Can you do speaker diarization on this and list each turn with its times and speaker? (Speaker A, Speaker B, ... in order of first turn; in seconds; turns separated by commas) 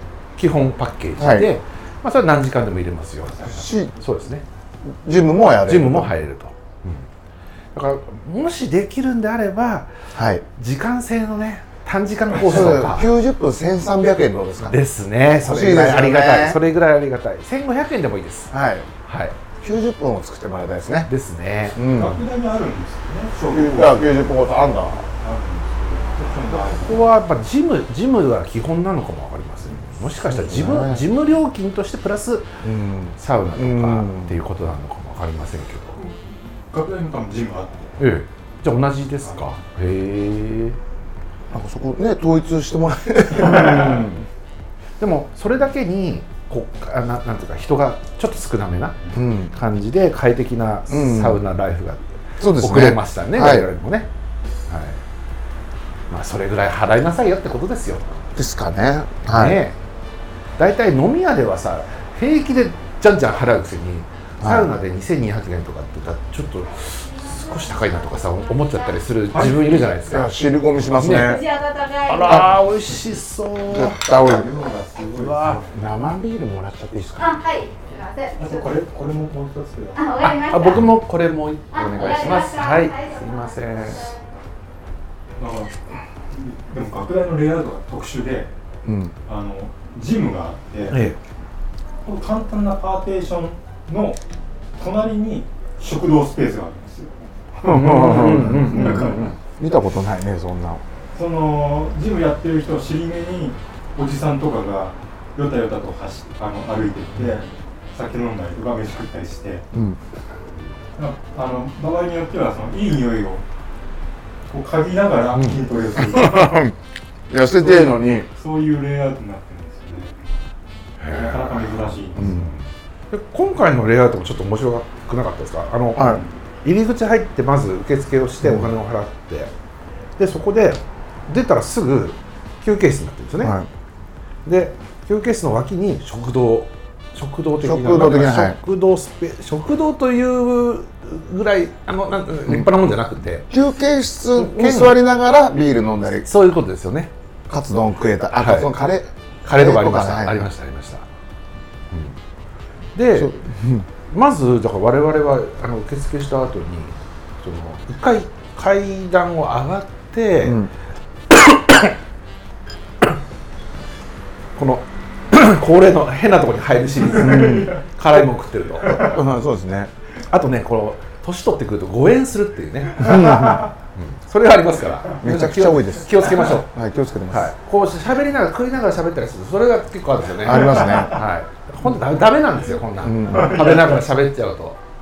Speaker A: 0.3-4.4, Speaker B: 1.2-1.5, Speaker B: 3.5-3.9, Speaker B: 4.9-6.1, Speaker A: 5.7-7.1, Speaker A: 7.7-9.9, Speaker B: 10.1-10.4, Speaker A: 10.5-13.1, Speaker B: 12.4-14.8, Speaker A: 14.6-18.5, Speaker B: 15.4-16.6, Speaker B: 18.5-18.9, Speaker A: 19.0-19.4, Speaker B: 19.6-21.1, Speaker A: 21.1-21.9, Speaker B: 21.7-22.2, Speaker C: 21.8-27.1, Speaker B: 23.5-25.0, Speaker A: 26.5-32.5, Speaker B: 30.2-31.1, Speaker B: 32.6-34.3, Speaker A: 33.2-36.0, Speaker C: 36.7-37.9, Speaker A: 38.0-40.8, Speaker B: 41.5-44.2, Speaker C: 43.5-44.0, Speaker A: 43.7-44.1, Speaker A: 45.0-54.1, Speaker B: 49.1-49.5, Speaker B: 50.9-51.4, Speaker B: 52.4-53.7, Speaker A: 54.7-55.0, Speaker A: 56.1-58.1, Speaker B: 58.4-59.6, Speaker A: 59.2-59.8, Speaker A: 60.6-70.3, Speaker B: 64.4-64.7, Speaker C: 69.3-69.7, Speaker B: 70.0-71.4, Speaker A: 70.9-71.4, Speaker D: 71.0-72.5, Speaker A: 72.0-74.1, Speaker B: 72.3-72.5, Speaker B: 73.7-74.5, Speaker C: 73.8-75.7, Speaker A: 75.1-75.6, Speaker B: 75.7-77.4, Speaker D: 77.2-78.7, Speaker C: 78.3-80.1, Speaker D: 80.0-80.9, Speaker A: 80.2-84.1, Speaker D: 81.7-84.2, Speaker C: 85.4-85.8, Speaker C: 86.3-88.5, Speaker B: 88.8-89.1, Speaker C: 89.2-91.0, Speaker A: 90.9-91.2, Speaker C: 92.0-94.2, Speaker C: 94.8-99.3, Speaker B: 97.6-100.8, Speaker A: 97.6-99.2, Speaker C: 101.1-109.6, Speaker B: 109.7-110.0, Speaker C: 110.9-113.4, Speaker C: 114.5-116.5, Speaker A: 115.3-115.6, Speaker B: 116.0-116.7, Speaker B: 117.3-118.3, Speaker C: 117.6-120.1, Speaker A: 121.0-126.1, Speaker C: 121.1-122.3, Speaker B: 122.2-122.5, Speaker B: 126.0-126.2, Speaker A: 126.6-129.5, Speaker B: 128.4-128.7, Speaker A: 130.2-133.6, Speaker B: 133.4-133.7, Speaker A: 134.4-143.5, Speaker B: 137.6-138.6, Speaker B: 143.5-146.3, Speaker A: 144.3-145.0, Speaker A: 146.2-147.1, Speaker B: 147.5-150.5, Speaker A: 148.3-148.7, Speaker A: 149.4-151.1, Speaker A: 151.9-152.2, Speaker A: 152.9-153.4, Speaker B: 153.1-153.8, Speaker A: 154.1-160.7, Speaker B: 160.4-160.7, Speaker A: 161.3-161.9, Speaker A: 164.6-169.1, Speaker B: 167.1-167.7, Speaker C: 167.2-167.8, Speaker B: 168.9-169.9, Speaker A: 170.3-176.7, Speaker B: 173.0-173.7, Speaker B: 175.2-177.5, Speaker A: 177.3-184.8, Speaker B: 180.4-181.2, Speaker B: 183.0-183.6, Speaker C: 183.3-184.0